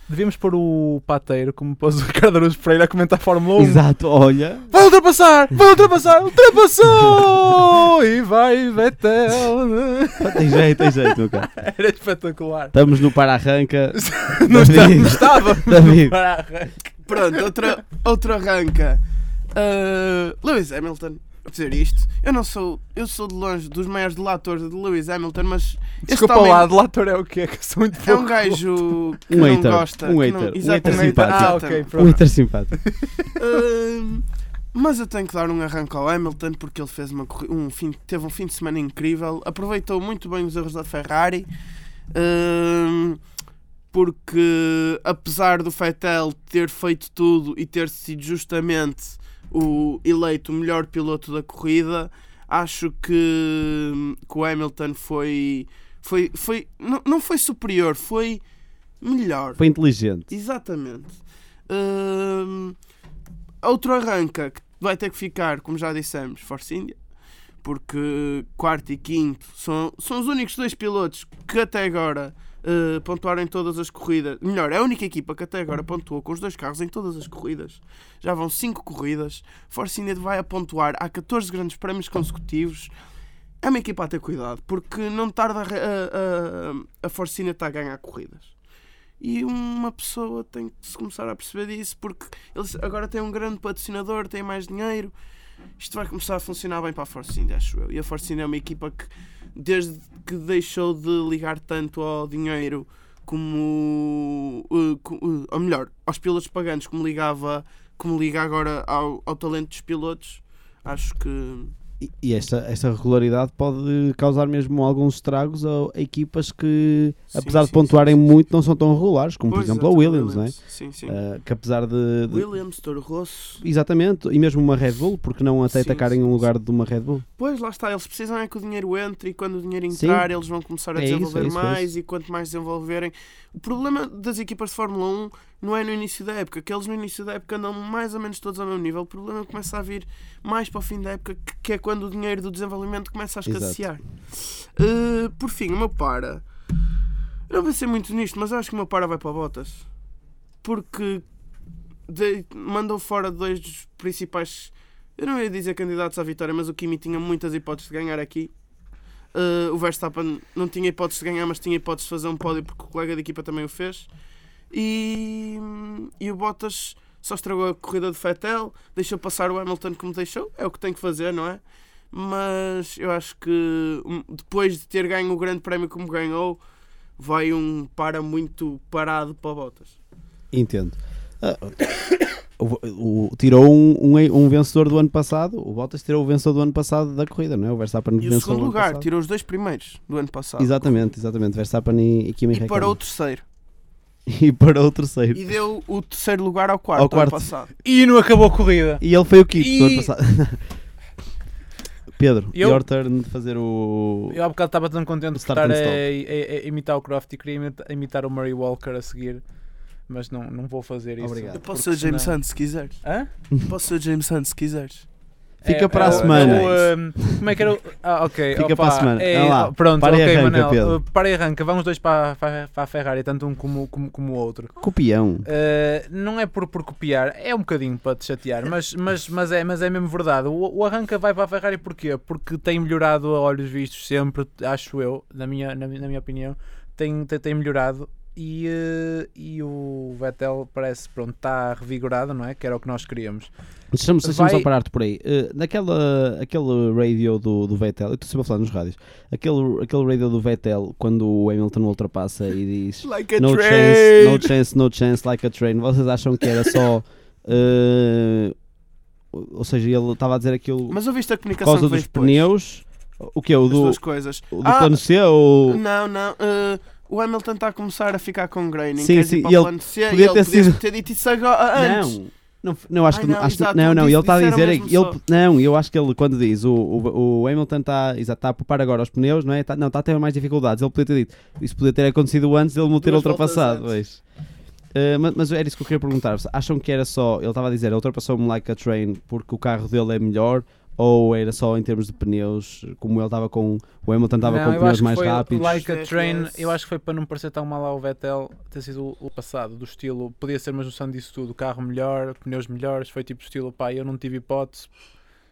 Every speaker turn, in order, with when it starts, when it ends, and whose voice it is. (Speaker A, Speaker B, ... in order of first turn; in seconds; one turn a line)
Speaker A: 0.1-3.8
Speaker B: 3.6-4.7
Speaker A: 4.7-12.8
Speaker B: 10.2-11.5
Speaker B: 12.7-16.2
Speaker A: 13.9-17.7
Speaker C: 17.1-19.0
Speaker C: 19.5-26.7
Speaker A: 26.1-29.0
Speaker C: 28.1-32.2
Speaker B: 29.3-32.8
Speaker A: 30.8-33.4
Speaker C: 33.4-41.5
Speaker C: 42.1-43.2
Speaker C: 43.9-58.4
Speaker C: 59.0-59.6
Speaker B: 59.6-60.3
Speaker C: 60.3-62.8
Speaker C: 63.6-67.0
Speaker C: 67.6-82.9
Speaker C: 83.6-88.5
Speaker C: 89.2-95.1
Speaker C: 95.8-111.7
Speaker B: 112.0-120.6
Speaker C: 117.3-118.4
Speaker C: 119.5-121.2
Speaker B: 121.1-122.5
Speaker C: 122.3-123.6
Speaker B: 123.6-127.2
Speaker C: 125.7-126.4
Speaker C: 127.4-146.4
Speaker B: 129.9-130.3
Speaker B: 131.0-131.9
Speaker B: 143.5-143.8
Speaker C: 147.5-149.9
Speaker C: 150.6-151.2
Speaker C: 152.1-158.5
Speaker C: 159.3-164.1
Speaker C: 164.7-171.6
Speaker C: 172.1-176.6
Speaker C: 177.2-180.0
Speaker B: 180.5-181.8
Speaker B: 182.6-189.1
Speaker C: 188.2-191.0
Speaker B: 190.6-193.0
Speaker C: 192.5-193.4
Speaker B: 194.3-195.5
Speaker C: 195.3-197.7
Speaker B: 196.9-197.4
Speaker A: 197.8-199.0
Speaker B: 199.0-200.6
Speaker A: 199.6-200.1
Speaker B: 202.2-204.4
Speaker A: 202.5-202.8
Speaker A: 204.3-209.4
Speaker B: 205.3-206.1
Speaker A: 210.1-212.3
Speaker B: 211.2-211.6
Speaker C: 211.5-213.0
Speaker A: 213.0-213.3
Speaker C: 213.6-215.1
Speaker B: 215.6-217.3
Speaker A: 215.6-224.7
Speaker C: 215.9-216.8
Speaker B: 218.5-221.0
Speaker B: 224.8-225.5
Speaker A: 225.4-243.5
Speaker B: 243.9-258.6
Speaker A: 244.2-244.7
Speaker C: 253.0-254.5
Speaker B: 259.3-261.0
Speaker C: 260.9-262.4
Speaker B: 261.6-264.0
Speaker C: 263.7-265.0
Speaker B: 264.5-265.8
Speaker C: 265.7-272.2
Speaker B: 269.0-270.8
Speaker B: 271.8-284.2
Speaker C: 273.1-275.2
Speaker C: 283.0-283.9
Speaker B: 284.9-295.8
Speaker A: 294.4-304.9
Speaker C: 295.5-296.7